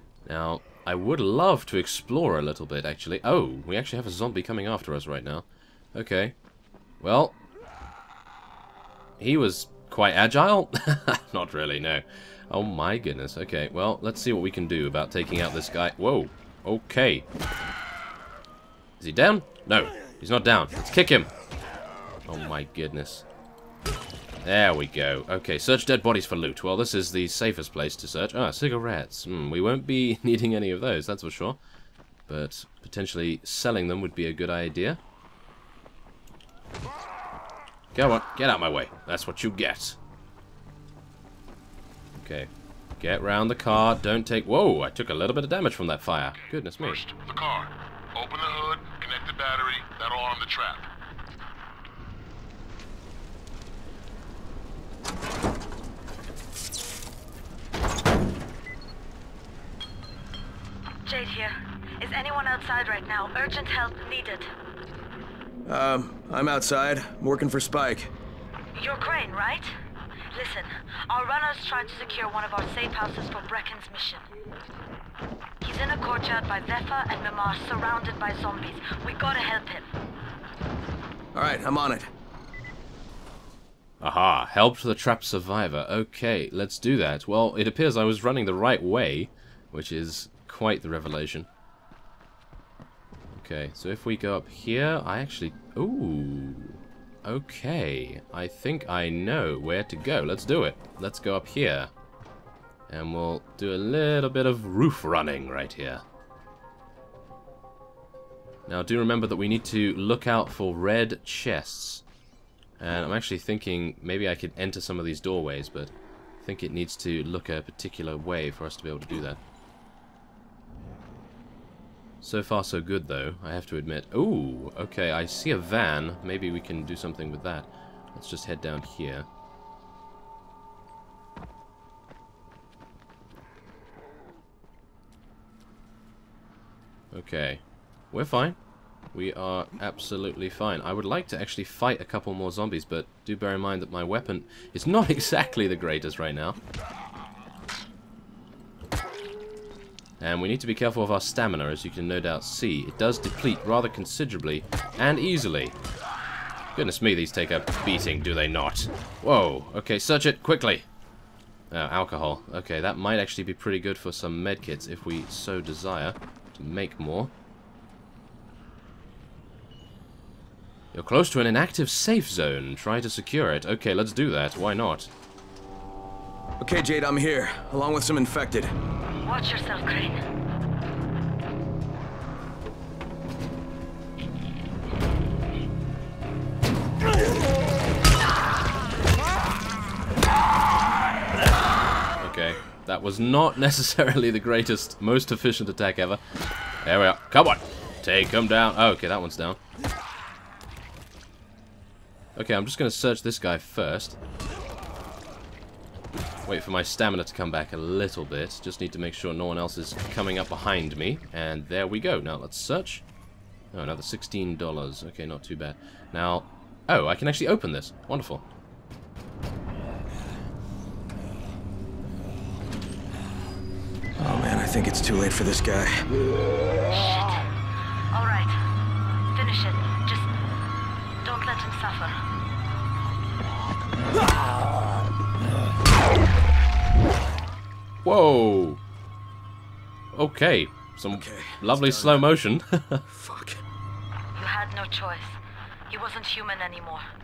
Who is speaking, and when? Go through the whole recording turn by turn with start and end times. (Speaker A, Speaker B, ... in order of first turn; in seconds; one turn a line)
Speaker A: 0.3-6.3
Speaker A: 7.0-7.4
Speaker A: 9.2-17.3
Speaker A: 19.0-21.3
Speaker A: 22.3-23.3
Speaker A: 24.4-31.6
Speaker A: 32.3-35.0
Speaker A: 37.9-40.0
Speaker A: 42.1-47.0
Speaker B: 46.7-50.9
Speaker C: 61.0-64.5
Speaker D: 65.7-68.1
Speaker C: 68.7-69.7
Speaker C: 70.3-74.3
Speaker C: 75.6-79.9
Speaker D: 81.3-82.1
Speaker A: 84.0-91.5
Speaker A: 93.3-101.9
Speaker A: 102.9-106.0
Speaker A: 108.7-112.0
Speaker A: 112.8-119.4
Speaker A: 122.2-129.3
Speaker A: 137.1-138.6
Speaker A: 139.1-146.6
Speaker A: 150.2-155.8
Speaker A: 156.8-160.9
Speaker A: 161.7-167.3
Speaker A: 170.9-175.1
Speaker D: 176.6-178.7
Speaker C: 179.2-180.2
Speaker A: 192.2-196.2
Speaker A: 196.8-199.6
Speaker A: 202.4-204.2
Speaker A: 206.5-213.1
Speaker A: 213.7-218.4
Speaker D: 224.2-226.0
Speaker C: 226.8-227.5
Speaker C: 228.1-228.6
Speaker C: 229.3-230.3
Speaker C: 231.2-232.2
Speaker A: 238.0-238.8
Speaker A: 240.1-243.1
Speaker D: 241.1-242.3
Speaker D: 243.2-243.6
Speaker C: 244.3-247.1